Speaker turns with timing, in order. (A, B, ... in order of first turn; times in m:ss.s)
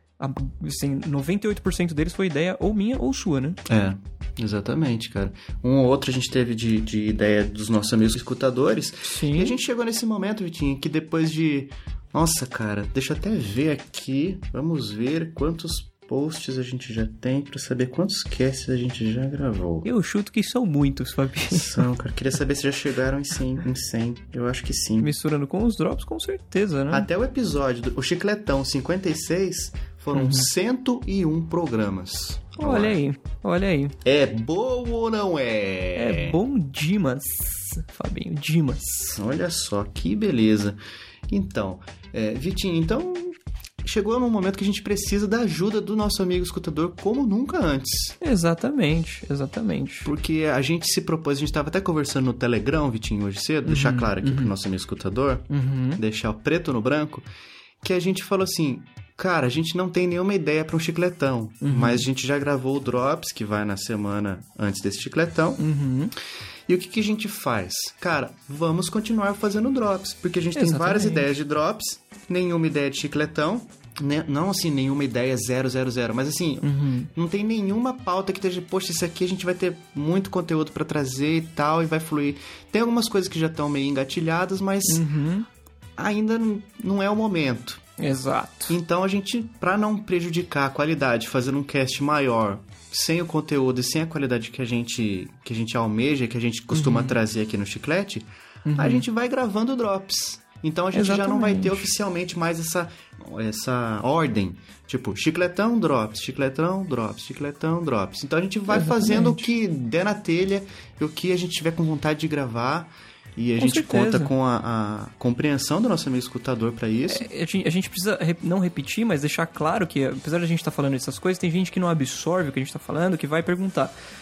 0:00.2-0:03.6 A
0:03.7-0:19.9 B
0:09.1-0:09.6 A
0:19.8-0:21.8 A
0:21.5-0:25.1 B
0:25.0-0:27.1 A
0:26.9-0:33.0 B
0:30.1-0:30.5 A
0:32.6-0:33.9 A
0:34.0-0:36.4 B
0:35.9-0:39.2 A
0:39.1-0:40.8 B
0:41.3-0:48.2 B
0:48.2-0:50.1 A
0:50.0-0:57.2 B
0:53.6-0:54.5 A
0:55.5-0:56.0 A
0:57.8-1:05.6 B
1:01.6-1:02.0 A
1:05.6-1:06.1 A
1:06.7-1:25.0 B
1:10.5-1:11.2 A
1:16.6-1:17.1 A
1:24.8-1:25.5 A
1:26.0-1:27.8 B
1:28.0-1:28.7 A
1:28.7-1:38.2 B
1:36.7-1:37.2 A
1:38.6-1:39.0 A
1:38.8-1:57.3 B
1:40.9-1:41.9 A
1:48.7-1:49.4 A
1:53.6-1:54.3 A
1:57.1-2:03.9 A